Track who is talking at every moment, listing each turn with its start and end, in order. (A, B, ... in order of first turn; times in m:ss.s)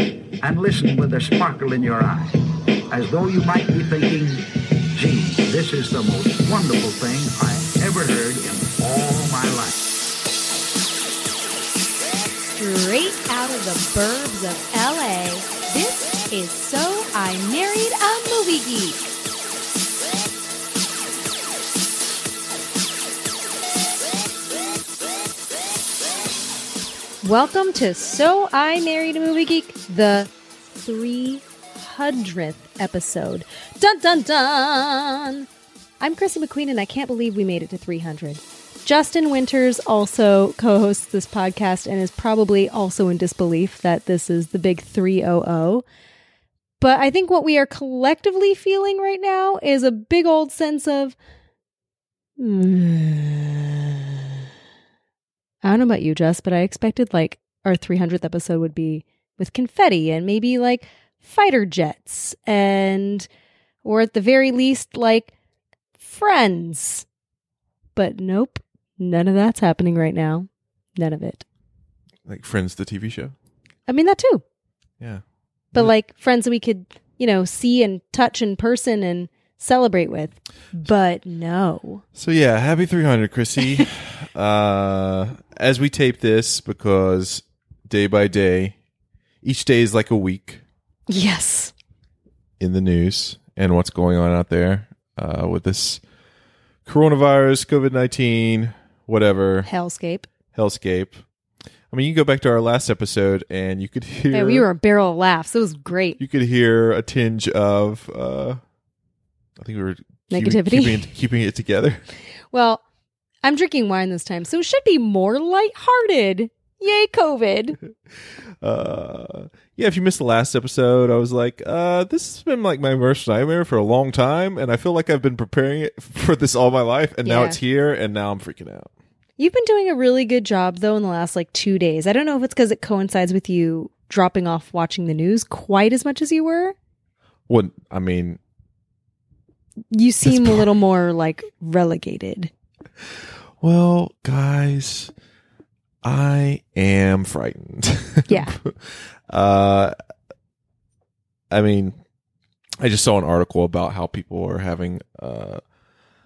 0:00.4-0:02.4 A
0:02.9-0:09.7 A
0:12.5-0:19.1 B
0:27.2-0:35.5 B
0:36.0-0:45.8 B
0:46.8-0:51.2 B
0:52.4-0:54.1 B
0:55.6-1:03.3 B
1:03.8-1:05.3 B
1:06.0-1:07.1 B
1:08.0-1:11.4 B
1:12.2-1:13.3 C
1:13.9-1:14.4 B
1:15.7-1:22.0 B
1:22.2-1:28.8 C
1:29.4-1:30.6 C
1:31.1-1:31.7 B
1:32.6-1:36.0 C
1:36.8-1:39.7 C
1:39.6-1:40.3 B
1:40.5-1:41.2 C
1:41.9-1:44.7 C
1:44.3-1:46.2 B
1:46.2-1:48.6 C
1:49.6-1:52.0 C
1:50.3-1:51.1 B
1:52.5-1:52.8 B
1:53.4-1:57.8 B
1:58.6-2:08.9 C
2:07.2-2:07.6 B
2:09.4-2:16.8 B
2:17.5-2:18.4 C
2:19.9-2:22.5 B
2:20.2-2:20.7 C
2:23.6-2:25.1 C
2:26.0-2:29.9 C
2:28.3-2:28.6 B
2:31.5-2:32.0 C
2:32.8-2:35.6 C